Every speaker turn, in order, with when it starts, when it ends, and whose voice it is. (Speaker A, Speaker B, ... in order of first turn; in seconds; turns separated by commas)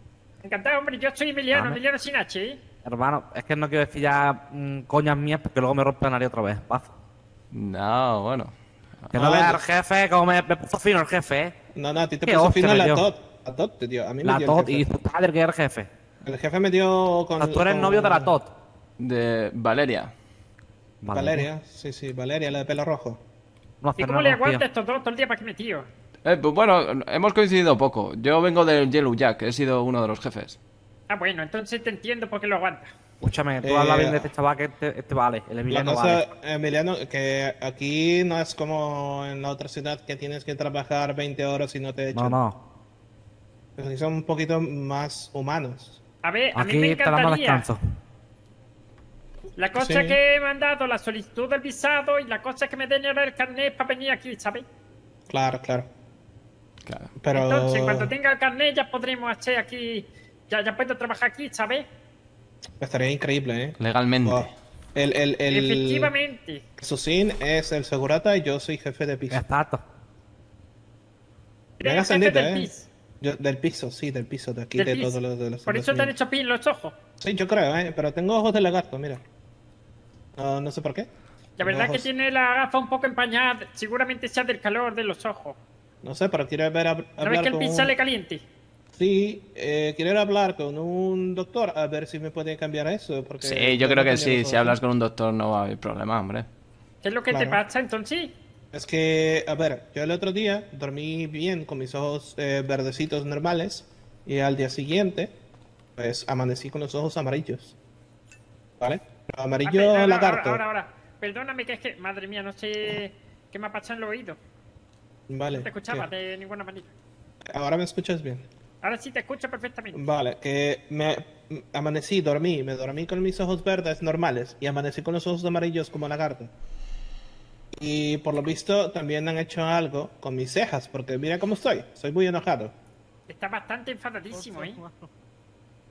Speaker A: 0.4-2.6, Speaker B: 2.8-6.9, Speaker C: 7.5-9.2, Speaker B: 9.1-11.5, Speaker D: 9.1-9.6, Speaker D: 11.7-14.9, Speaker B: 12.2-13.1, Speaker B: 14.2-15.9, Speaker D: 16.2-18.4, Speaker B: 17.4-18.5, Speaker C: 19.0-20.1, Speaker B: 21.0-21.4, Speaker D: 21.1-23.2, Speaker B: 23.8-24.6, Speaker A: 24.0-25.9, Speaker C: 26.2-30.6, Speaker A: 31.1-32.9, Speaker B: 33.2-36.2, Speaker D: 33.6-34.3, Speaker D: 35.7-42.4, Speaker B: 42.1-42.6, Speaker D: 43.8-46.0, Speaker A: 46.2-47.6, Speaker B: 46.5-47.8, Speaker A: 49.6-54.6, Speaker D: 49.8-50.2, Speaker D: 55.3-55.9, Speaker C: 56.9-57.1, Speaker D: 57.2-58.1, Speaker A: 57.3-61.9, Speaker D: 62.8-66.1, Speaker C: 63.8-64.5, Speaker A: 65.5-66.6, Speaker D: 66.8-69.4, Speaker B: 69.3-69.8, Speaker A: 71.8-72.9, Speaker D: 71.8-72.7, Speaker D: 73.2-76.1, Speaker A: 74.8-77.0, Speaker D: 77.2-79.2, Speaker D: 80.3-81.1, Speaker A: 81.6-85.6, Speaker D: 81.6-82.1, Speaker D: 86.0-87.9, Speaker A: 87.2-88.4, Speaker D: 88.9-94.8, Speaker C: 93.4-96.5, Speaker A: 97.0-98.3, Speaker D: 97.3-97.6, Speaker D: 98.7-105.3, Speaker D: 106.0-107.8, Speaker D: 108.8-110.6, Speaker A: 109.6-114.4, Speaker D: 115.3-116.1, Speaker A: 115.5-116.9, Speaker D: 117.5-118.5, Speaker A: 118.8-120.0, Speaker D: 119.9-126.5, Speaker D: 127.8-132.7, Speaker A: 133.3-134.8, Speaker B: 134.3-135.1